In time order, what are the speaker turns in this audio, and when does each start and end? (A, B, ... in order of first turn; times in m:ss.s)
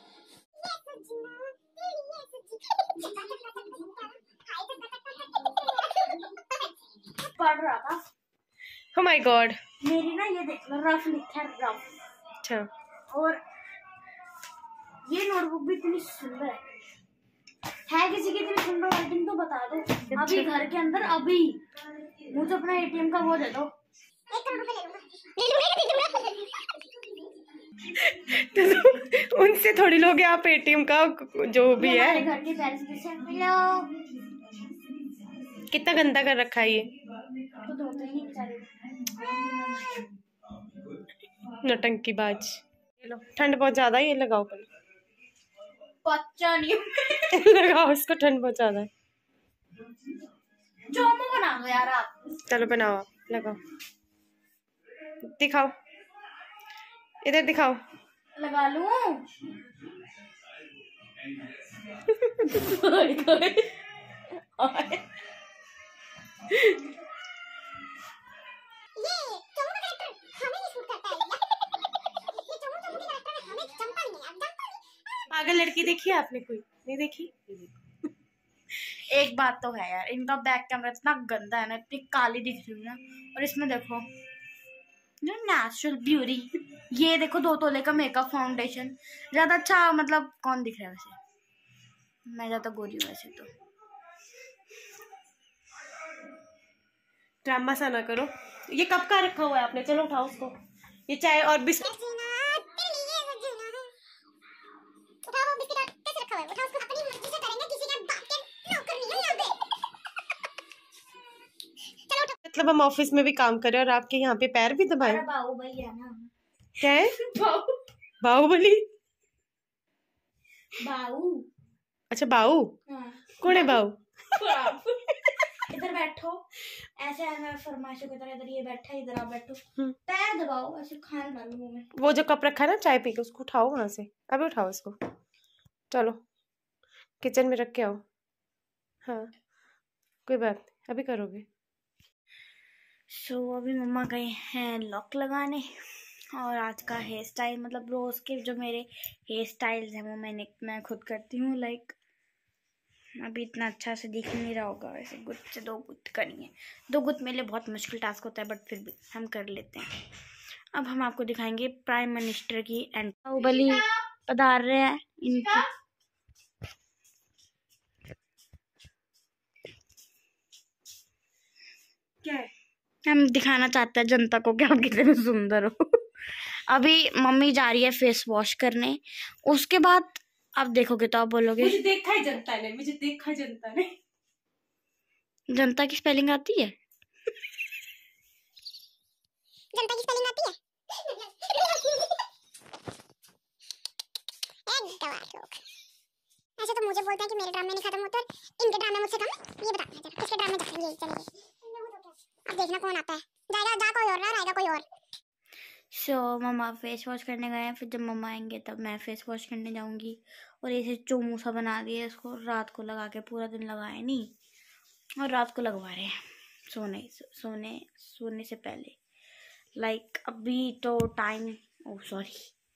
0:00.6-0:06.7 A
0:07.2-0:08.0 B
0:08.9-0:09.6 C
0:09.8-0:11.8 B
0:12.4-0:12.7 C
0:13.1-0:13.4 B
0:15.1-0:16.6 B
0:17.8-0:21.6 B
0:20.1-0:20.5 C
0:22.3-0:23.7 B
0:24.3-0:26.8 A
0:28.0-0:32.3 C
0:31.8-0:33.9 B
0:35.7-0:36.9 C
0:37.6-0:39.8 B
0:41.6-0:44.7 C
0:46.0-0:47.3 B
0:47.3-0:48.9 C
0:50.9-0:52.2 B
0:52.4-0:53.6 C
0:55.2-0:55.7 C
0:57.2-0:57.8 C
0:58.4-0:59.3 B
1:02.2-1:03.7 B
1:04.6-1:05.0 B
1:09.0-1:11.4 A
1:12.2-1:15.3 A
1:15.3-1:17.8 C
1:18.9-1:24.0 B
1:25.2-1:31.2 B
1:32.2-1:33.5 B
1:37.4-1:40.5 C
1:41.1-1:41.9 C
1:41.8-1:43.9 A
1:45.2-1:49.6 A
1:52.1-1:52.4 A
1:52.4-1:55.2 C
1:55.0-1:56.3 B
1:56.8-1:57.1 C
1:57.2-1:57.7 B
1:58.2-1:58.8 C
2:00.8-2:01.4 B
2:02.1-2:02.7 C
2:02.9-2:11.9 B
2:03.4-2:04.0 C
2:11.9-2:15.0 C
2:15.9-2:16.2 C
2:17.2-2:18.0 C
2:19.0-2:19.3 C
2:20.3-2:21.4 C
2:23.1-2:25.7 B
2:26.3-2:31.9 B
2:33.2-2:39.9 B
2:40.7-2:45.6 B
2:52.2-2:52.5 C
2:53.0-2:56.0 B
2:56.7-3:01.8 B
3:01.6-3:03.9 C
3:05.5-3:06.8 B
3:09.7-3:10.6 A
3:11.4-3:12.1 A
3:14.7-3:15.6 A
3:16.6-3:24.8 A
3:25.9-3:34.3 B
3:35.2-3:36.1 B
3:36.7-3:39.0 B
3:39.8-3:42.5 B